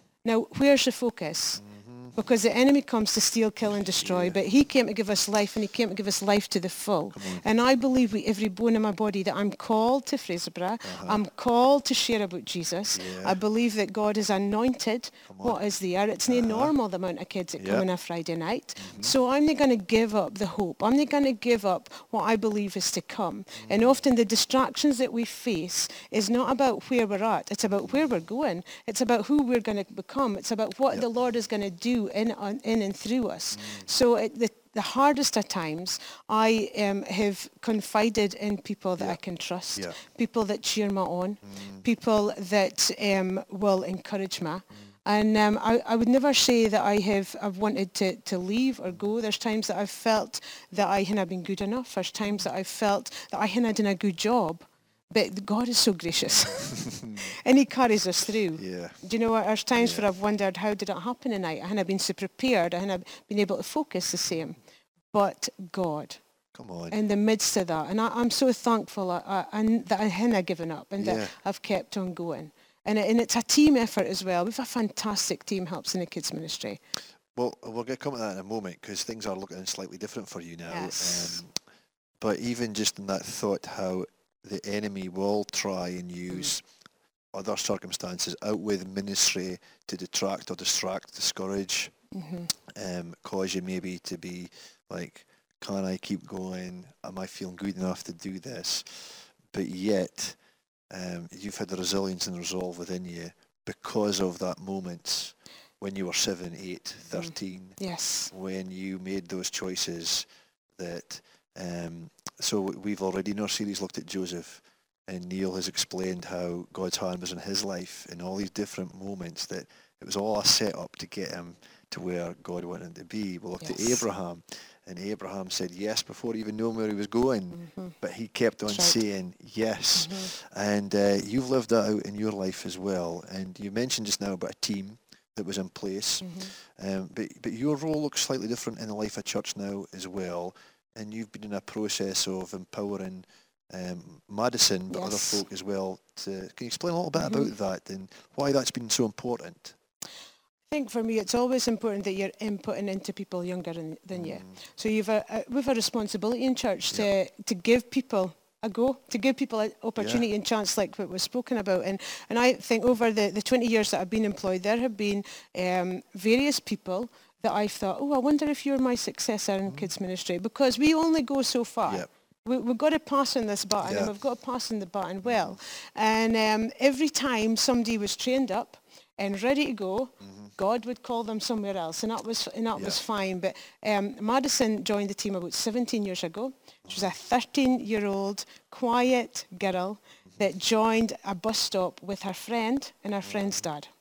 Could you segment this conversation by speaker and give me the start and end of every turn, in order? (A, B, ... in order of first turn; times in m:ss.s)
0:00.2-0:01.6 A
0:01.6-0:02.2 B
0:02.1-1:04.6 A
0:04.0-0:04.4 B
0:07.1-0:07.4 B
0:10.8-0:11.2 B
0:12.9-0:13.4 B
0:15.2-0:15.6 B
0:16.3-0:16.7 B
0:17.6-0:17.9 B
0:18.8-0:19.1 B
0:23.6-0:24.0 B
0:33.5-0:33.9 B
0:41.4-0:41.8 B
0:56.4-0:57.3 B
0:58.6-0:59.0 B
0:59.8-1:00.1 B
1:05.1-1:06.2 A
1:06.5-1:07.0 B
1:06.9-1:16.8 A
1:11.0-1:11.3 B
1:17.3-1:21.5 B
1:20.7-1:21.4 A
1:22.2-1:26.6 B
1:27.3-1:31.9 B
1:32.1-1:32.5 A
1:32.7-1:40.4 B
1:40.9-2:29.8 B
1:47.2-1:48.3 A
2:03.6-2:04.0 A
2:07.5-2:08.0 A
2:08.7-2:09.0 A
2:10.0-2:10.3 A
2:16.2-2:16.5 A
2:24.9-2:25.4 A
2:27.2-2:27.5 A
2:30.7-3:13.9 A
2:34.1-2:34.5 B
2:40.0-2:40.2 B
2:53.8-2:54.1 B
2:55.2-2:55.6 B
3:06.8-3:07.1 B
3:13.2-3:13.6 B